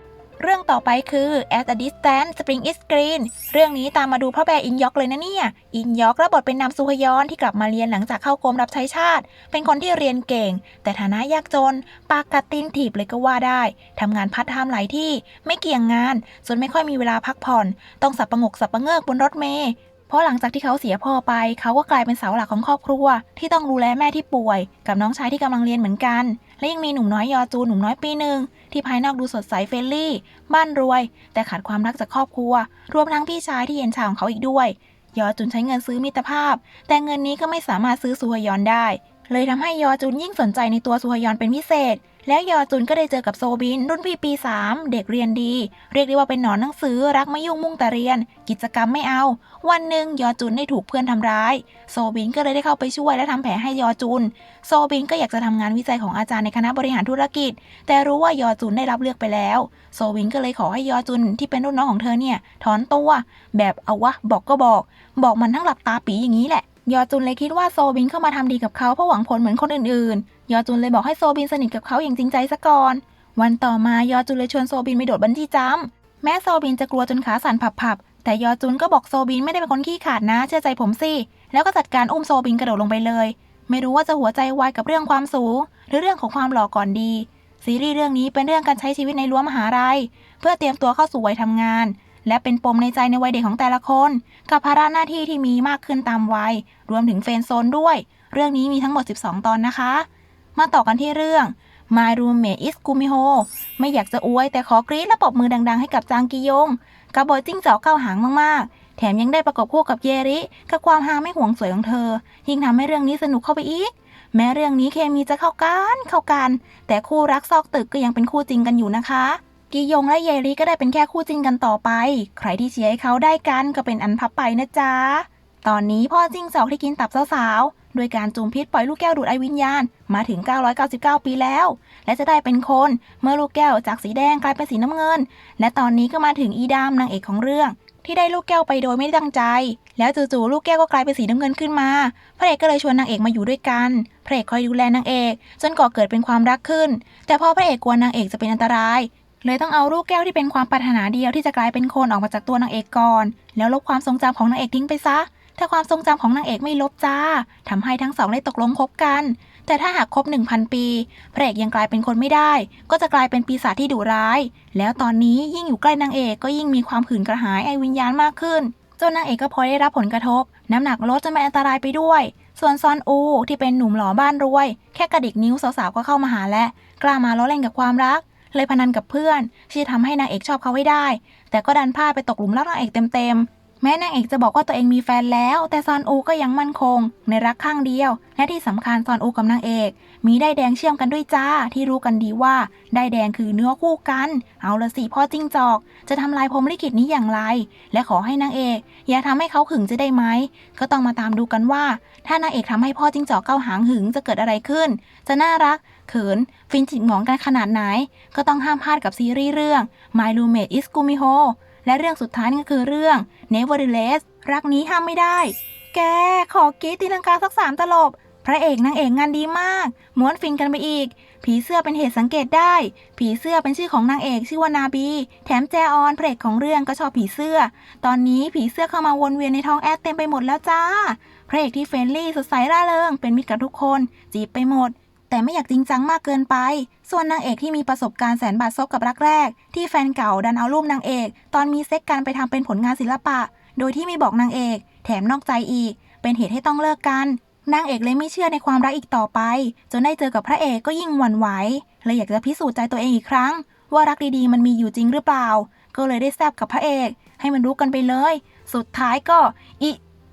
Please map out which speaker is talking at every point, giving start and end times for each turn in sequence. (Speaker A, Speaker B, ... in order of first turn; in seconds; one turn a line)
Speaker A: 0.4-260.0